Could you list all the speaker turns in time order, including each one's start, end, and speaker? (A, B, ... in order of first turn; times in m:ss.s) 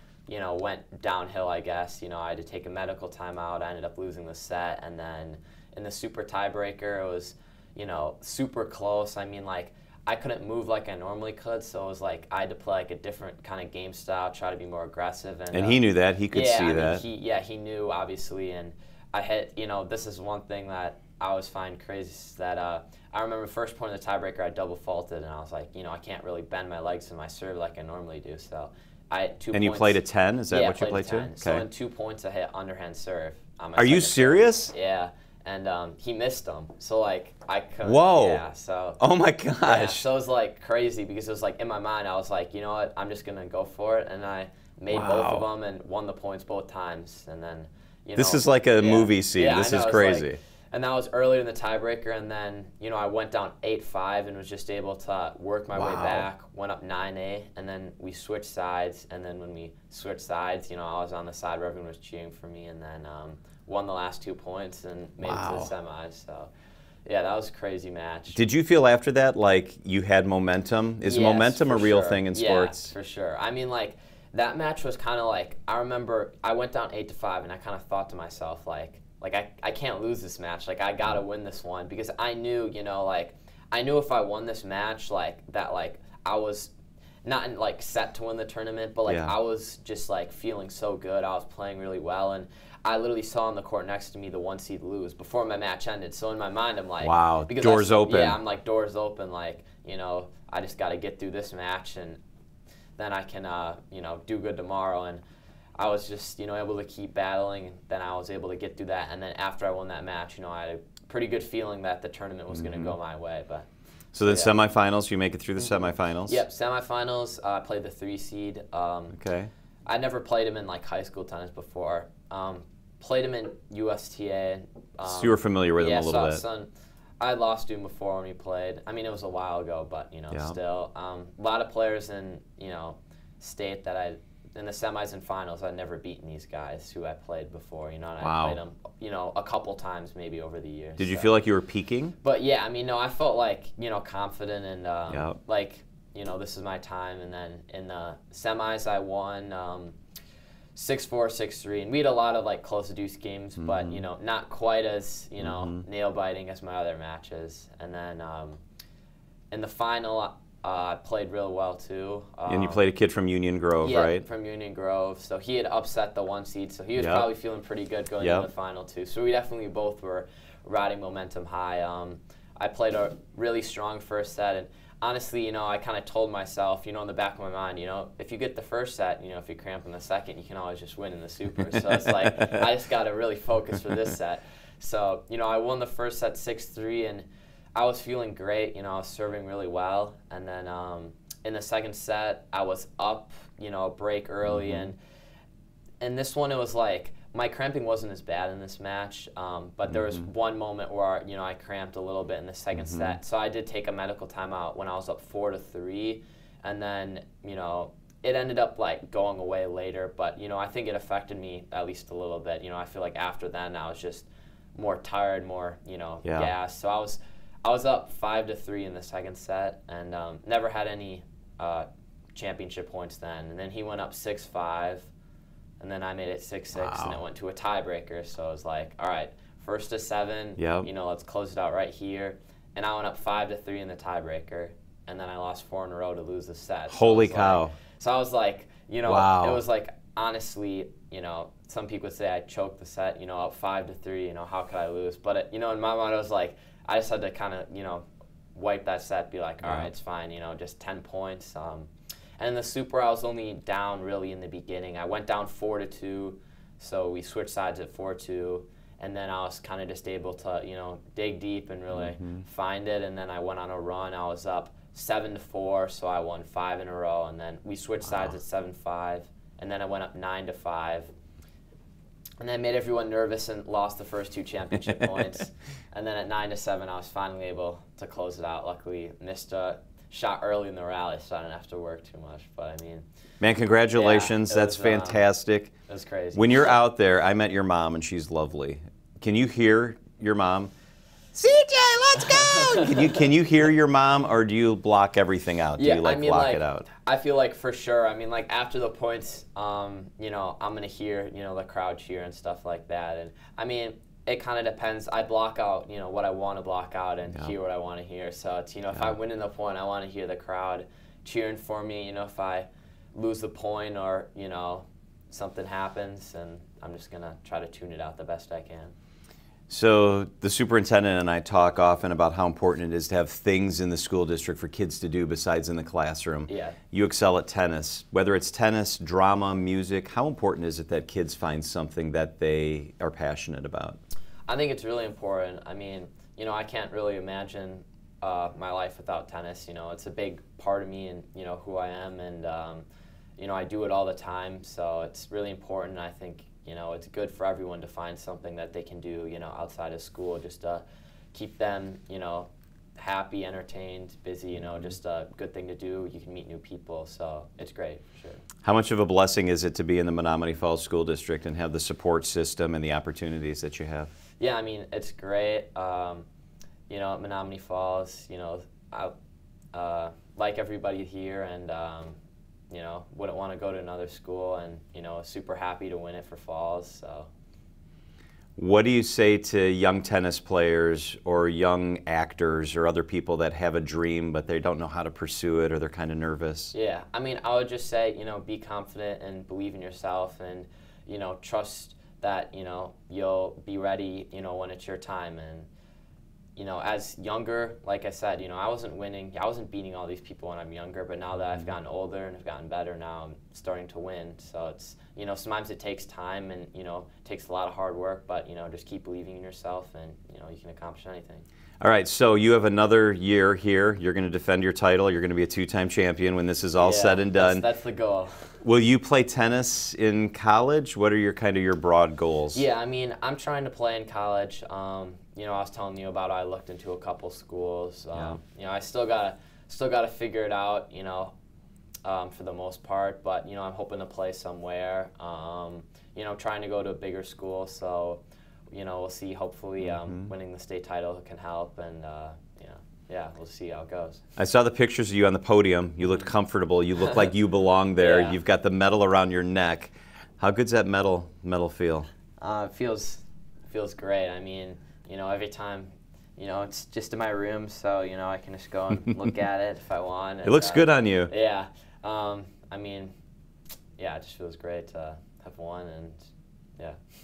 0:00.3-0:39.0 A
0:15.5-0:17.0 B
0:29.5-0:31.6 B
0:33.8-0:34.7 B
0:37.8-0:38.4 B
0:39.0-0:40.0 B
0:39.6-1:06.5 A
0:44.9-0:45.4 B
0:48.2-0:50.4 B
0:55.7-0:56.3 B
1:05.2-1:05.7 B
1:07.0-1:08.4 A
1:08.3-1:12.9 B
1:11.0-1:26.7 A
1:27.2-1:42.2 A
1:29.0-1:29.3 B
1:37.0-1:38.4 B
1:43.0-1:45.2 A
1:45.8-1:53.7 A
1:52.5-1:52.9 B
1:54.1-1:56.4 B
1:54.2-1:54.5 A
1:55.6-1:59.2 A
1:59.1-1:59.5 B
1:59.8-2:21.4 A
2:05.0-2:06.4 B
2:10.3-2:10.6 B
2:18.2-2:18.6 B
2:21.0-2:22.1 B
2:22.2-2:29.9 A
2:25.1-2:25.4 B
2:30.7-2:38.6 A
2:33.6-2:34.0 B
2:35.4-2:35.8 B
2:39.5-2:42.8 A
2:42.5-2:44.2 B
2:43.8-3:15.0 A
2:47.0-2:47.2 B
2:48.2-2:48.5 B
3:02.4-3:02.6 B
3:14.4-3:14.9 B
3:16.0-3:45.1 A
3:19.9-3:20.3 B
3:22.7-3:23.2 B
3:36.2-3:36.5 B
3:45.8-4:31.1 A
3:46.7-3:47.2 B
3:50.6-3:50.9 B
3:56.9-3:57.7 B
3:59.0-3:59.6 B
4:09.6-4:09.9 B
4:21.9-4:22.4 B
4:32.4-4:43.0 A
4:43.4-4:45.7 B
4:43.9-4:45.3 A
4:45.9-4:46.8 A
4:46.3-4:50.7 B
4:51.3-4:56.9 B
4:52.2-4:53.3 A
4:55.8-5:18.9 A
5:19.7-5:34.0 B
5:26.5-5:26.8 A
5:34.5-5:42.8 A
5:43.4-5:58.4 A
5:58.6-6:04.1 B
6:04.4-6:06.2 A
6:06.9-6:09.1 A
6:09.7-6:12.1 A
6:12.7-6:17.3 A
6:18.6-6:26.7 B
6:26.7-6:35.7 A
6:36.6-6:51.4 A
6:51.8-6:57.6 B
6:56.8-6:58.5 A
6:58.6-7:02.6 B
7:02.5-7:11.3 A
7:12.0-7:24.2 A
7:19.8-7:20.3 B
7:24.4-7:32.1 B
7:27.0-7:27.2 A
7:28.0-7:28.4 A
7:32.4-7:43.1 A
7:40.4-7:41.3 B
7:44.0-7:46.2 A